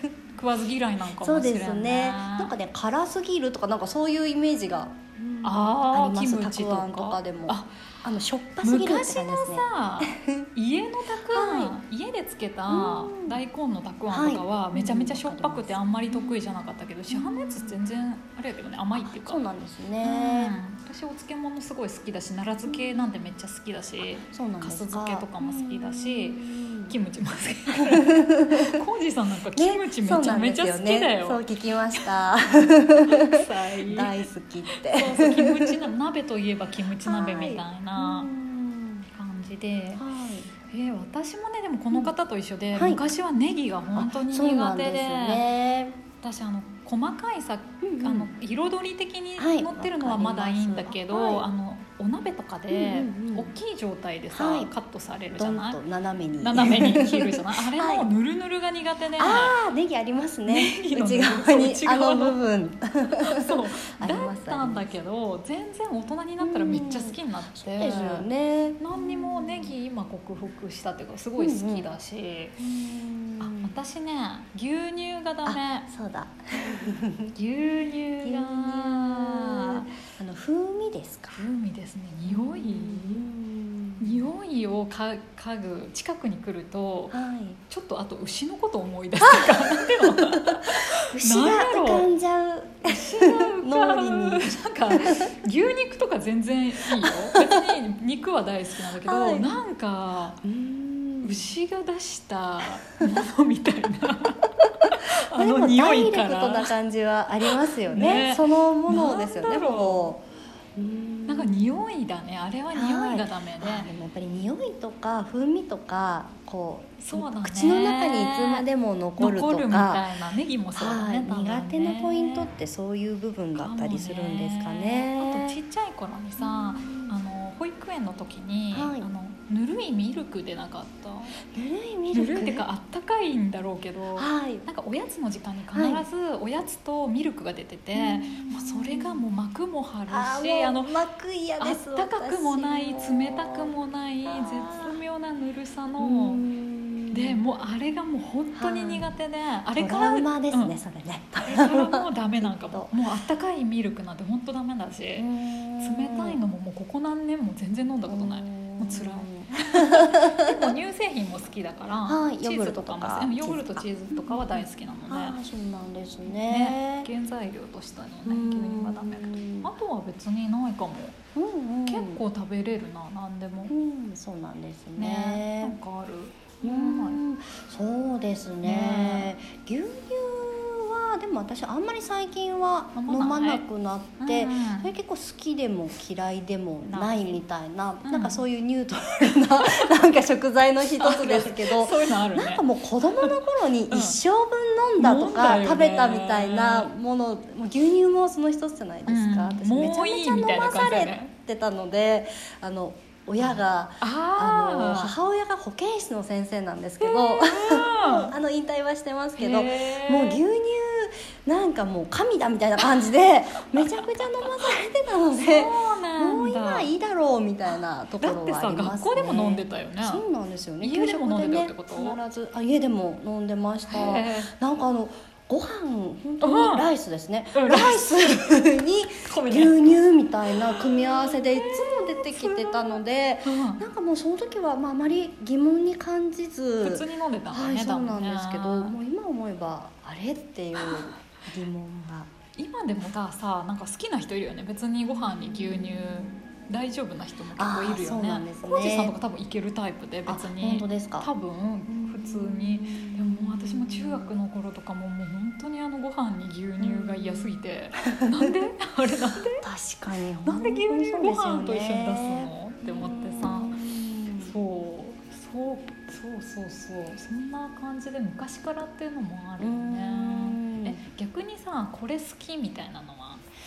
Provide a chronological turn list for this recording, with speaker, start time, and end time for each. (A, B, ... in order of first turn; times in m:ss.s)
0:00.4-0:02.5 A
0:01.2-0:10.5 B
0:05.4-0:07.9 A
0:08.6-0:19.4 A
0:11.3-0:11.7 B
0:12.7-0:13.4 B
0:14.1-0:16.4 B
0:17.1-0:17.8 B
0:19.0-0:20.6 B
0:20.0-0:31.4 A
0:22.7-0:23.1 B
0:24.3-0:27.0 B
0:27.8-0:28.8 B
0:29.6-0:35.9 B
0:33.0-0:38.3 A
0:37.0-0:39.1 B
0:39.1-0:40.0 A
0:40.0-0:40.5 B
0:40.7-0:45.5 A
0:42.8-0:43.0 B
0:43.9-0:46.0 B
0:46.2-0:55.8 A
0:47.8-0:48.3 B
0:49.4-0:51.5 B
0:52.7-0:53.6 B
0:54.3-0:54.7 B
0:55.3-0:58.1 B
0:56.4-0:59.6 A
0:59.2-1:05.0 B
1:00.5-1:02.4 A
1:03.2-1:08.3 A
1:06.4-1:09.8 B
1:08.8-1:12.6 A
1:11.4-1:11.9 B
1:12.6-1:13.8 B
1:13.4-1:15.9 A
1:15.4-1:17.4 B
1:17.4-1:19.9 A
1:18.2-1:21.4 B
1:21.4-1:23.3 A
1:22.3-1:24.3 B
1:24.0-1:27.2 A
1:27.1-1:27.6 B
1:27.7-1:32.1 A
1:29.4-1:35.3 B
1:32.8-1:40.4 A
1:37.0-1:37.6 B
1:39.0-1:39.6 B
1:40.4-1:41.5 B
1:41.2-1:46.7 A
1:45.3-1:50.2 B
1:47.8-1:50.2 A
1:50.8-1:51.8 B
1:51.3-1:53.9 A
1:52.7-2:00.0 B
1:57.0-1:58.6 A
1:59.2-2:02.5 A
2:00.8-2:05.6 B
2:03.6-2:11.4 A
2:06.4-2:07.2 B
2:08.7-2:09.1 B
2:11.5-2:12.7 B
2:12.1-2:20.9 A
2:14.2-2:14.7 B
2:15.7-2:16.1 B
2:18.0-2:19.2 B
2:20.1-2:25.0 B
2:21.6-2:26.4 A
2:26.0-2:27.4 B
2:27.1-2:30.8 A
2:28.6-2:29.1 B
2:29.7-2:33.0 B
2:31.5-2:35.3 A
2:35.2-2:36.4 B
2:35.8-2:45.4 A
2:38.1-2:40.7 B
2:42.1-2:47.1 B
2:46.3-2:51.2 A
2:48.2-2:49.8 B
2:51.4-2:52.2 B
2:51.9-2:53.7 A
2:53.7-2:55.8 B
2:55.0-2:57.2 A
2:56.6-4:02.3 B
2:58.6-2:59.3 A
3:03.0-3:03.6 A
3:04.2-3:04.9 A
3:06.8-3:07.4 A
3:08.0-3:08.4 A
3:11.0-3:12.6 A
3:13.9-3:14.2 A
3:15.0-3:16.9 A
3:19.1-3:21.3 A
3:23.4-3:25.2 A
3:27.0-3:28.3 A
3:29.4-3:30.4 A
3:33.7-3:34.0 A
3:35.4-3:36.9 A
3:38.2-3:40.2 A
3:40.8-3:42.2 A
3:43.9-3:44.5 A
3:46.4-3:46.9 A
3:47.6-3:48.4 A
3:49.2-3:50.0 A
3:50.5-3:53.8 A
3:56.8-3:59.0 A
4:02.6-4:19.6 A
4:05.3-4:06.4 B
4:07.6-4:09.2 B
4:10.3-4:11.3 B
4:11.9-4:14.4 B
4:16.8-4:18.5 B
4:19.6-4:24.6 B
4:20.4-4:23.8 A
4:24.4-4:33.4 A
4:29.6-4:31.0 B